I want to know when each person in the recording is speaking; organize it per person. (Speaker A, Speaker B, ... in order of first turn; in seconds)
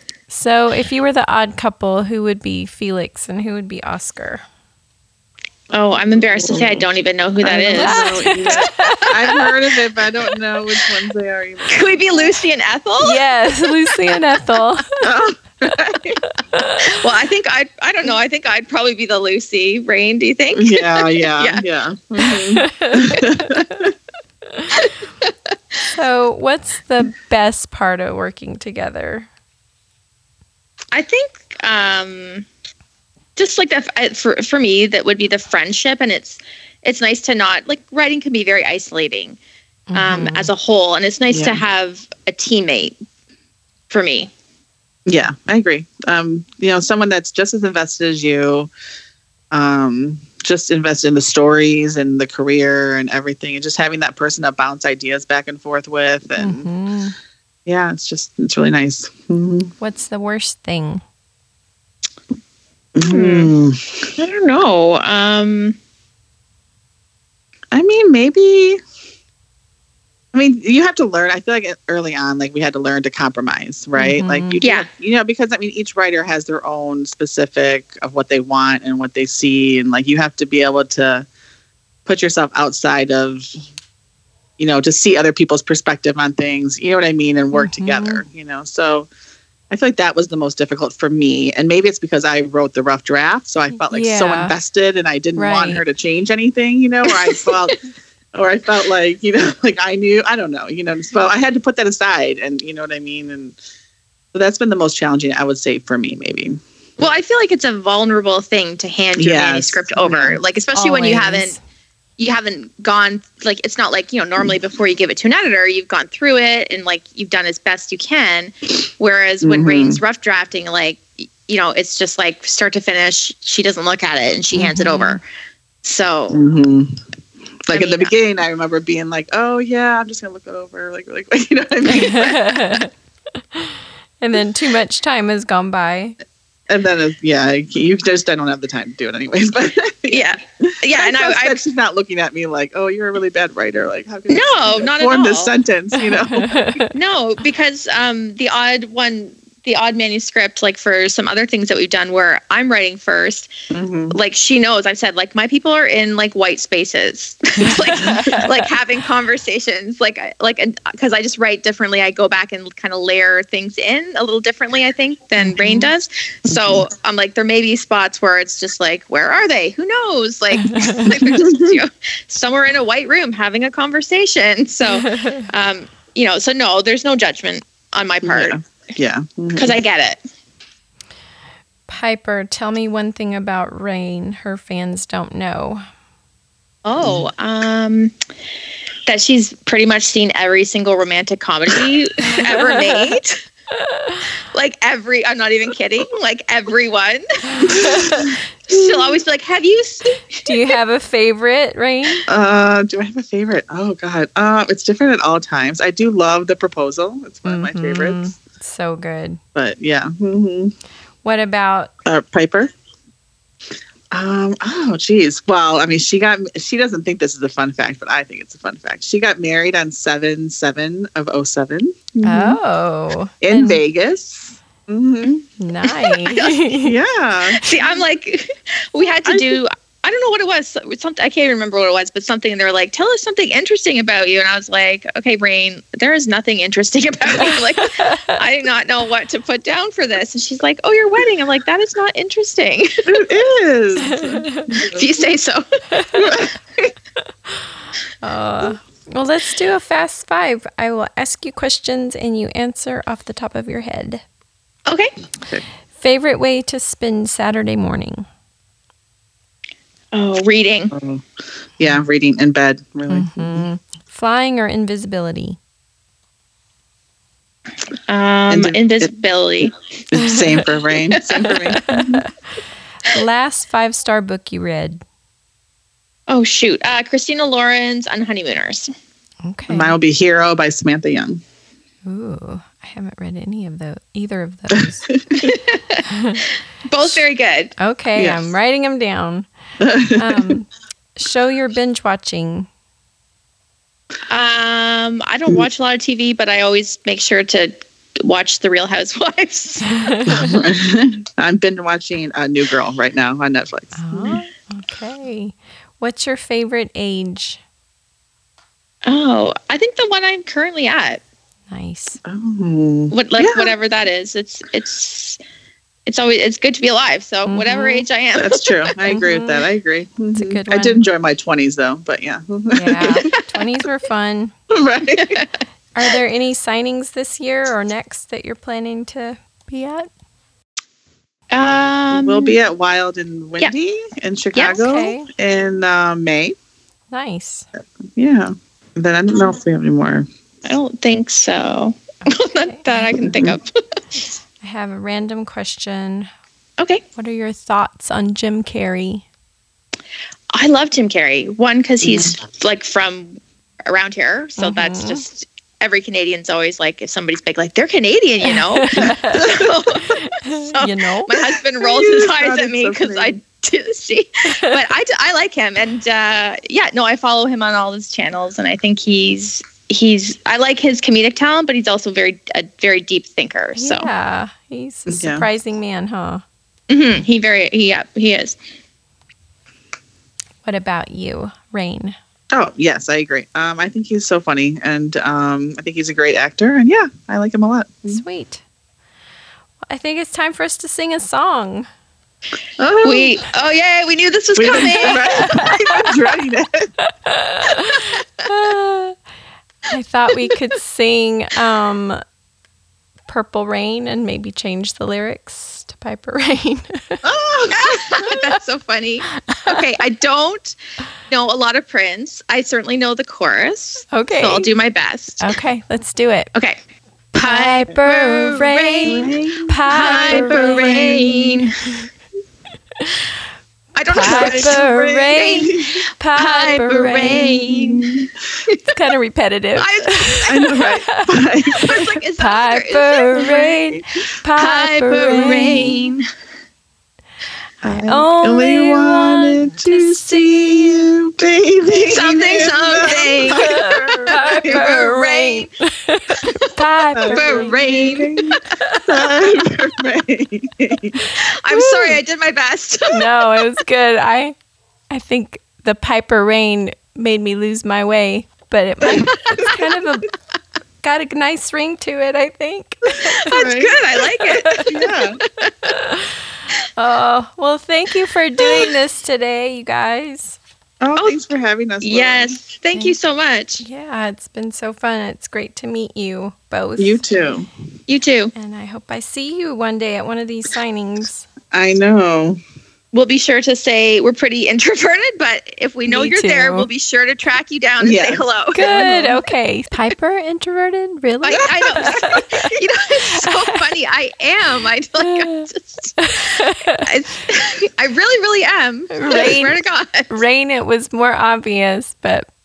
Speaker A: 0.3-4.4, 7.7-9.7, 13.0-15.0, 16.5-16.8, 22.2-23.7, 25.9-29.3, 39.9-40.5, 56.4-57.1, 59.8-61.0, 73.9-74.6, 87.5-88.2, 93.9-94.5, 95.3-95.8, 110.0-111.6, 124.5-125.2, 131.8-132.9, 133.5-136.2, 146.0-146.9, 157.8-158.6, 165.4-165.9, 170.7-171.1, 181.9-185.8, 192.8-193.2, 193.8-194.2, 197.6-198.3, 200.4-202.3, 207.4-209.4, 211.2-211.9, 222.2-223.8, 225.6-226.9, 237.5-238.3, 244.0-244.8, 246.0-246.4, 248.2-254.2, 255.9-258.2, 263.1-265.6, 270.3-270.7, 271.8-272.2, 273.1-275.0, 279.4-279.9, 282.1-285.1, 286.1-286.4, 287.8-289.5, 290.1-292.7, 300.0-300.4, 303.9-307.6, 311.7-312.2, 317.4-318.1, 319.1-319.7, 320.3-321.1, 322.7-324.5, 325.9-330.1, 334.6-335.3, 337.1-337.7, 342.2-342.9, 344.6-346.3, 347.1-349.2, 354.6-355.2, 358.4-359.5, 360.0-361.5, 373.8-376.4, 380.6-382.1, 388.1-388.6, 389.9-391.9, 395.0-396.1, 397.2-399.2, 399.9-402.2, 403.3-407.2, 409.3-409.8, 414.1-414.7, 415.4-416.5, 417.3-421.3, 424.1-427.8, 428.9-436.1, 437.8-441.1, 443.5-448.1, 451.7-452.2, 453.1-454.5, 455.1-460.3, 461.0-464.9, 465.8-466.3, 466.9-470.6, 473.8-477.3, 478.5-481.5, 486.1-486.9, 488.7-492.7, 493.4-493.9, 495.4-495.6, 496.2-497.0, 499.1-502.5
Speaker B: 5.7-8.9, 11.7-13.2, 16.8-21.6, 24.7-25.3, 30.9-32.5, 33.4-39.4, 39.9-42.9, 43.9-44.3, 63.0-63.5, 64.2-65.8, 74.6-74.9, 97.1-97.5, 107.0-111.5, 112.2-125.2, 125.8-126.4, 127.7-128.1, 140.1-141.6, 144.3-145.5, 146.9-153.5, 154.1-178.6, 179.5-180.2, 186.8-188.1, 189.1-193.4, 194.5-200.5, 225.8-226.6, 227.6-242.9, 244.8-245.6, 260.1-260.9, 268.1-269.7, 271.1-271.6, 276.3-278.9, 285.4-286.0, 286.9-287.8, 294.3-297.7, 298.2-300.2, 309.0-311.2, 313.1-315.4, 316.1-318.9, 325.2-325.5, 331.5-332.6, 340.6-343.7, 350.5-374.1, 376.9-378.6, 393.0-395.3, 397.6-398.2, 407.7-410.8, 411.3-415.5, 417.3-419.3, 419.9-421.7, 423.9-428.8, 429.8-430.7, 431.8-436.2, 442.1-445.7, 446.4-446.7, 447.2-448.6, 451.3-453.6, 459.2-459.8, 463.3-464.9, 465.5-465.9, 468.6-468.9, 472.0-473.8, 478.1-478.5, 483.1-489.1, 491.4-500.3
Speaker C: 6.3-6.9, 7.4-12.3, 15.0-16.2, 20.5-23.9, 41.3-41.6, 45.0-48.7, 49.5-56.7, 57.6-59.7, 62.9-63.9, 67.7-68.8, 70.3-81.2, 82.0-83.5, 84.6-89.1, 89.7-97.8, 98.3-103.6, 104.3-106.6, 109.2-110.3, 119.4-120.0, 126.3-126.9, 127.7-132.8, 136.7-146.7, 153.7-154.2, 166.5-166.8, 171.4-171.8, 178.2-179.7, 187.0-187.3, 202.3-208.2, 209.5-210.7, 212.1-212.7, 214.1-222.6, 223.4-225.3, 226.8-227.6, 229.2-229.6, 243.1-245.0, 246.2-246.5, 260.9-261.2, 261.8-263.6, 268.5-269.1, 270.1-272.3, 279.7-281.4, 284.8-285.5, 288.1-288.4, 289.8-290.6, 300.3-304.3, 312.2-313.7, 318.3-323.3, 324.7-325.4, 332.1-336.6, 338.1-340.3, 343.2-343.6, 352.0-352.3, 359.1-359.6, 361.8-363.4, 375.1-375.5, 382.5-388.2, 392.8-393.4, 394.6-396.9, 407.2-408.4, 419.1-421.5, 424.1-425.8, 427.5-428.2, 430.4-432.1, 435.3-435.9, 437.8-444.9, 447.1-451.2, 463.5-463.9, 464.9-465.4, 471.0-472.6, 477.0-477.7, 481.7-482.6, 488.0-489.4, 491.5-492.1